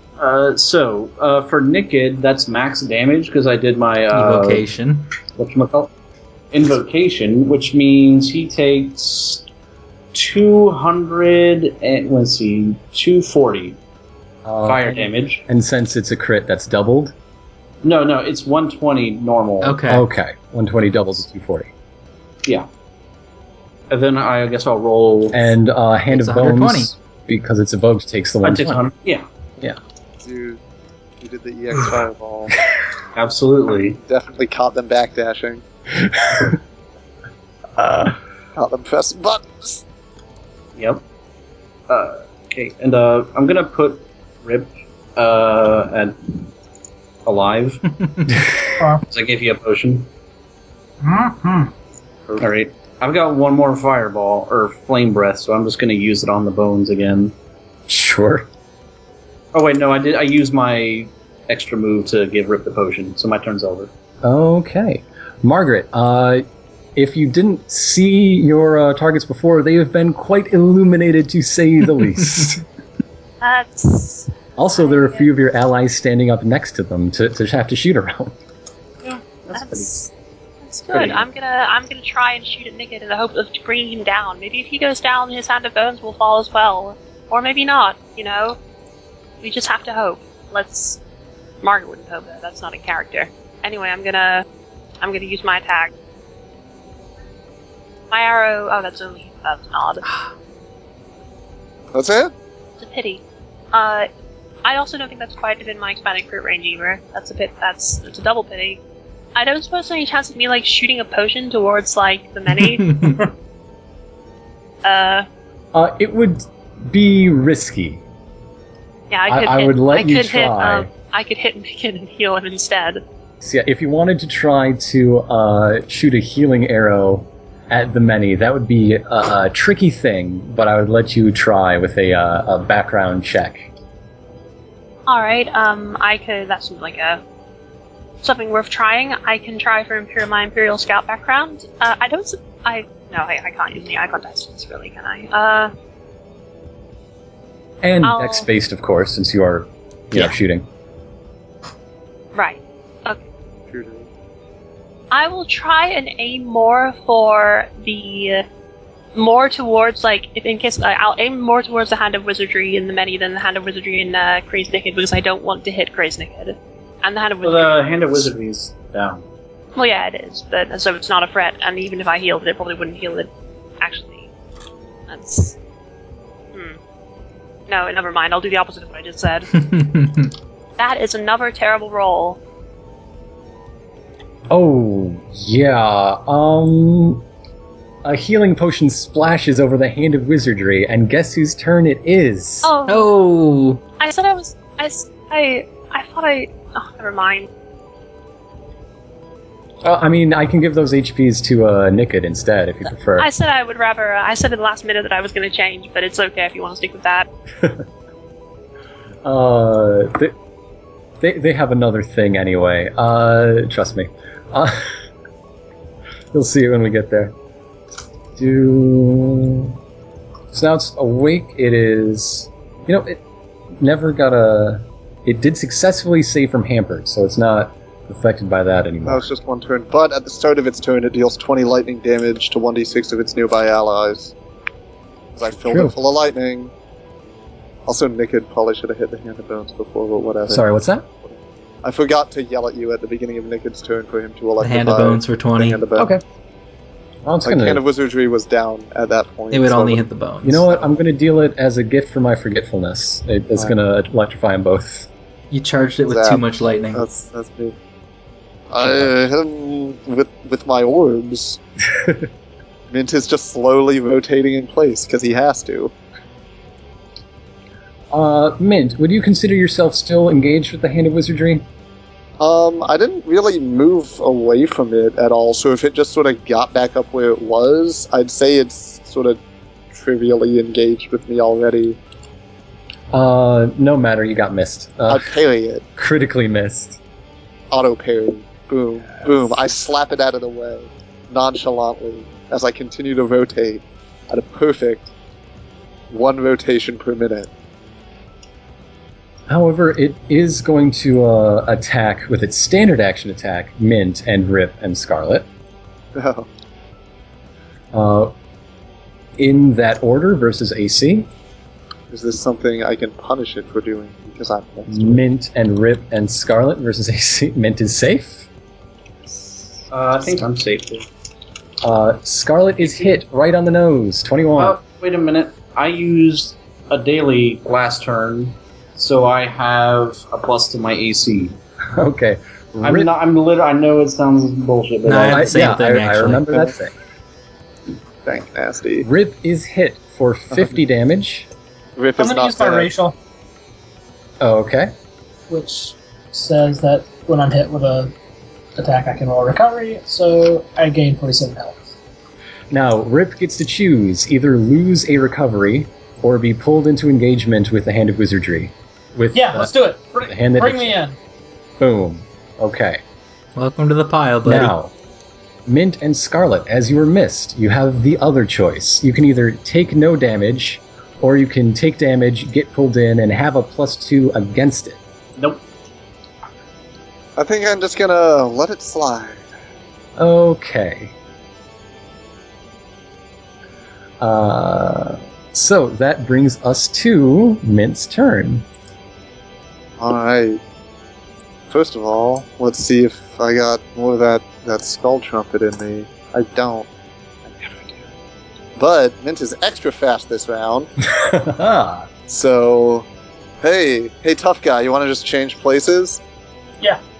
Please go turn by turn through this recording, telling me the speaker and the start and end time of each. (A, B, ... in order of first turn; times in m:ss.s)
0:00.2-0:04.7 A
0:04.1-0:05.1 B
0:05.4-0:05.9 A
0:06.5-0:09.4 A
0:10.1-0:13.8 A
0:14.4-0:17.1 C
0:14.6-0:15.4 A
0:17.8-0:19.8 A
0:19.6-0:20.1 B
0:19.9-0:21.7 C
0:23.9-0:25.5 A
0:25.3-0:28.9 C
0:26.1-0:26.9 B
0:28.4-0:29.2 A
0:30.2-0:30.6 D
0:31.2-0:32.6 D
0:33.1-0:34.0 A
0:34.0-0:35.6 D
0:36.1-0:36.5 C
0:37.8-0:38.1 C
0:38.6-0:39.8 D
0:40.8-0:41.0 A
0:41.9-0:46.5 A
0:47.2-0:47.8 A
0:48.8-0:49.0 E
0:49.0-0:50.1 A
0:51.0-0:51.7 E
0:52.3-0:57.3 A
0:57.9-0:58.5 C
0:59.5-1:03.9 A
1:04.2-1:06.4 C
1:07.0-1:12.6 C
1:13.4-1:15.3 F
1:14.6-1:18.4 C
1:19.0-1:20.1 F
1:19.4-1:20.0 A
1:20.6-1:28.6 F
1:20.9-1:21.2 C
1:29.4-1:31.0 F
1:31.6-1:34.4 F
1:35.0-1:35.9 F
1:38.1-1:40.1 F
1:41.9-1:42.3 D
1:42.8-1:43.2 F
1:43.7-1:44.1 F
1:44.6-1:48.8 F
1:49.3-1:53.2 F
1:52.6-1:53.2 B
1:54.8-1:55.3 F
1:55.7-1:58.0 C
1:59.1-2:03.0 F
1:59.3-2:00.9 C
2:03.4-2:13.7 C
2:15.1-2:17.2 F
2:18.2-2:25.7 F
2:27.8-2:30.7 C
2:28.0-2:28.5 F
2:32.3-2:33.2 F
2:33.7-2:34.1 D
2:35.1-2:38.4 F
2:39.1-2:48.3 F
2:47.4-2:49.2 A
2:49.8-2:53.3 F
2:53.8-2:54.3 F
2:55.1-2:55.6 F
2:57.7-2:59.5 F
2:59.5-3:00.3 B
3:00.8-3:02.4 F
3:04.5-3:07.2 C
3:08.0-3:12.7 C
3:12.6-3:13.1 F
3:12.9-3:13.8 B
3:14.0-3:17.5 F
3:19.8-3:23.3 C
3:23.2-3:27.3 F
3:29.2-3:30.3 C
3:31.2-3:34.9 C
3:36.3-3:37.3 C
3:38.4-3:39.7 C
3:40.5-3:43.2 C
3:43.8-3:49.2 C
3:49.0-3:54.3 D
3:55.4-3:56.7 D
3:55.6-3:56.0 C
3:57.8-4:00.6 D
4:00.5-4:01.1 C
4:01.2-4:06.1 D
4:04.6-4:05.8 B
4:06.0-4:06.2 C
4:07.2-4:07.8 C
4:07.4-4:10.0 D
4:09.5-4:10.7 B
4:10.4-4:15.1 C
4:15.5-4:17.0 B
4:16.0-4:17.7 D
4:18.7-4:21.6 D
4:18.8-4:19.1 C
4:22.0-4:22.2 C
4:22.9-4:25.9 D
4:28.1-4:31.6 C
4:32.4-4:39.4 D
4:39.9-4:42.0 D
4:43.1-4:45.3 C
4:45.1-4:45.8 D
4:46.0-4:47.0 C
4:47.7-4:55.1 D
4:56.1-4:57.5 D
4:59.5-5:05.5 C
5:06.1-5:06.5 D
5:07.9-5:08.3 C
5:09.4-5:11.3 C
5:12.1-5:15.2 D
5:14.9-5:18.5 C
5:19.9-5:21.1 A
5:21.8-5:24.8 C
5:22.8-5:23.2 A
5:24.6-5:31.6 A
5:31.9-5:33.1 C
5:32.8-5:35.6 A
5:35.0-5:36.6 B
5:35.3-5:36.9 C
5:38.2-5:39.1 D
5:39.0-5:41.5 C
5:42.0-5:42.9 D
5:42.2-5:43.1 E
5:44.4-5:44.9 C
5:45.5-5:48.1 E
5:48.8-5:51.9 E
5:52.7-5:59.7 C
5:59.3-6:01.2 E
6:00.2-6:00.9 C
6:01.8-6:03.0 C
6:03.5-6:04.8 B
6:04.4-6:04.9 C
6:05.6-6:15.0 C
6:15.4-6:15.6 A
6:17.4-6:19.4 D
6:20.2-6:21.1 C
6:24.2-6:28.6 C
6:30.0-6:30.6 D
6:31.7-6:36.9 D
6:37.5-6:38.0 D
6:38.8-6:40.9 D
6:41.0-6:42.1 C
6:42.3-6:43.1 D
6:43.6-6:46.2 D